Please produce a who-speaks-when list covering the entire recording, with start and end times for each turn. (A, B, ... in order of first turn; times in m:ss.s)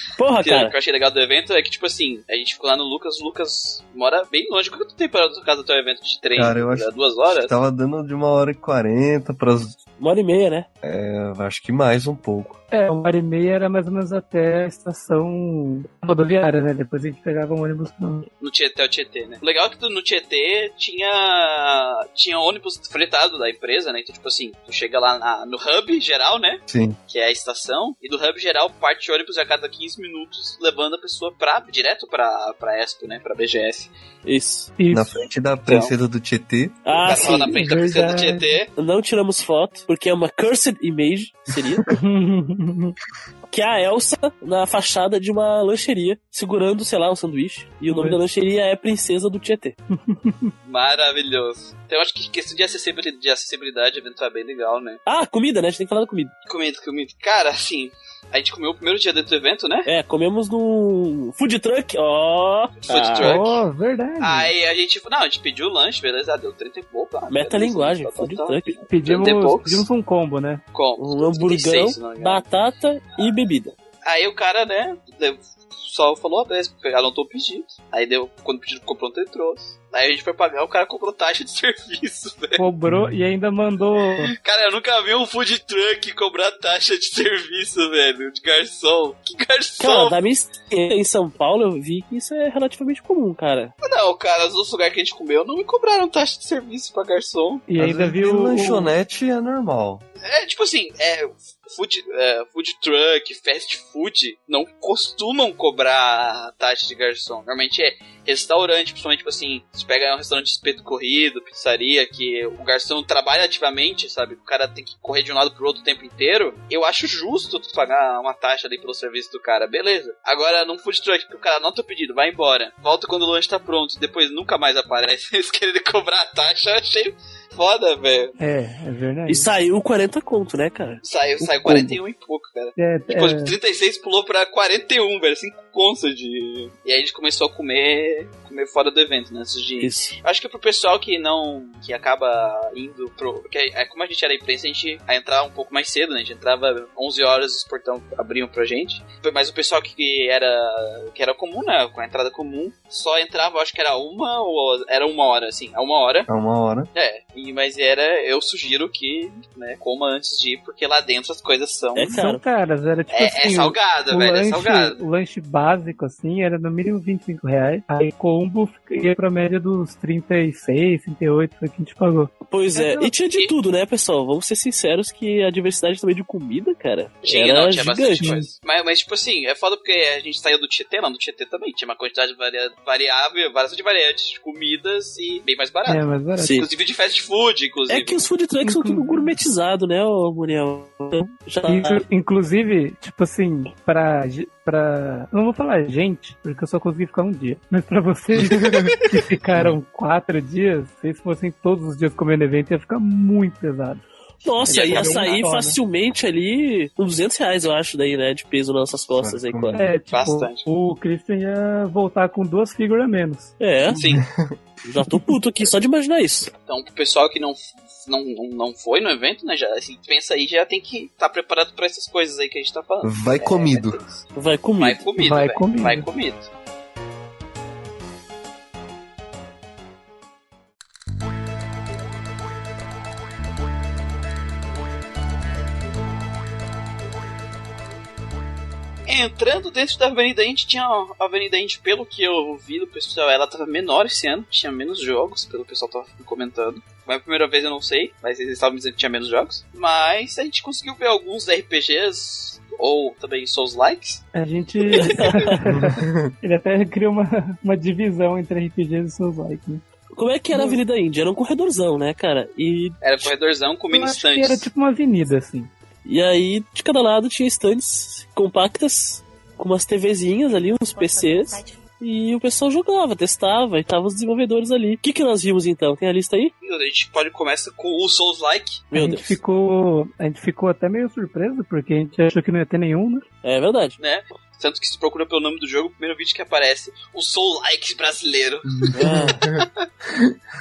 0:00.2-0:00.8 A
0:00.4-0:07.6 B
0:06.3-0:09.8 C
0:10.0-0:10.7 A
0:10.8-0:12.6 C
0:12.7-0:18.3 D
0:18.4-0:33.9 B
0:26.7-0:27.0 C
0:34.2-0:34.7 A
0:34.8-0:35.2 D
0:34.9-0:37.4 C
0:36.8-0:37.6 A
0:37.0-0:38.7 B
0:37.5-0:38.5 D
0:38.8-0:41.9 A
0:41.9-0:43.0 D
0:43.5-0:49.8 A
0:47.9-0:48.2 D
0:49.9-0:50.5 D
0:50.6-0:55.0 B
0:55.0-0:56.3 A
0:56.4-0:59.9 B
0:59.8-1:03.4 A
1:02.8-1:03.6 B
1:03.2-1:04.5 D
1:04.2-1:09.8 B
1:07.3-1:08.8 A
1:08.9-1:10.6 D
1:10.7-1:12.4 B
1:11.0-1:13.7 A
1:14.0-1:22.6 B
1:22.6-1:24.3 D
1:22.9-1:23.1 C
1:24.2-1:30.2 B
1:29.8-1:33.7 A
1:33.8-1:37.6 B
1:37.7-1:38.9 D
1:37.8-1:40.0 C
1:40.2-2:08.4 B
2:08.4-2:09.5 D
2:09.3-2:12.0 A
2:11.0-2:36.3 B
2:12.8-2:13.5 D
2:19.8-2:20.1 A
2:36.3-2:36.9 C
2:36.9-2:42.2 B
2:41.9-2:42.4 A
2:42.1-2:53.1 D
2:43.1-2:45.0 B
2:52.5-2:58.3 A
2:57.2-3:08.3 B
2:58.2-2:58.5 D
3:05.8-3:06.6 D
3:06.4-3:06.7 A
3:07.9-3:12.0 A
3:08.6-3:09.3 D
3:11.7-3:24.0 D
3:18.4-3:19.0 C
3:18.7-3:19.2 B
3:19.5-3:19.8 C
3:24.4-3:29.8 A
3:24.6-3:25.0 C
3:24.7-3:25.8 D
3:29.1-3:29.8 C
3:29.7-3:33.5 D
3:30.1-3:30.7 B
3:33.6-3:34.0 A
3:33.9-3:34.6 C
3:34.0-3:34.2 B
3:34.8-3:36.5 A
3:36.7-3:44.2 B
3:43.0-3:44.0 C
3:44.3-3:45.0 A
3:44.8-3:46.5 B
3:45.2-3:46.1 D
3:59.0-4:14.2 B
4:14.3-4:19.8 D
4:15.0-4:15.5 A
4:15.6-4:16.3 C
4:20.1-4:23.3 A
4:20.5-4:20.8 D
4:23.0-4:24.7 B
4:23.9-4:25.7 D
4:26.0-4:36.5 A
4:36.6-4:38.8 B
4:38.9-4:39.4 A
4:38.9-4:43.2 D
4:43.4-4:44.0 A
4:44.0-4:49.8 B
4:48.9-4:50.3 C
4:48.9-4:49.4 A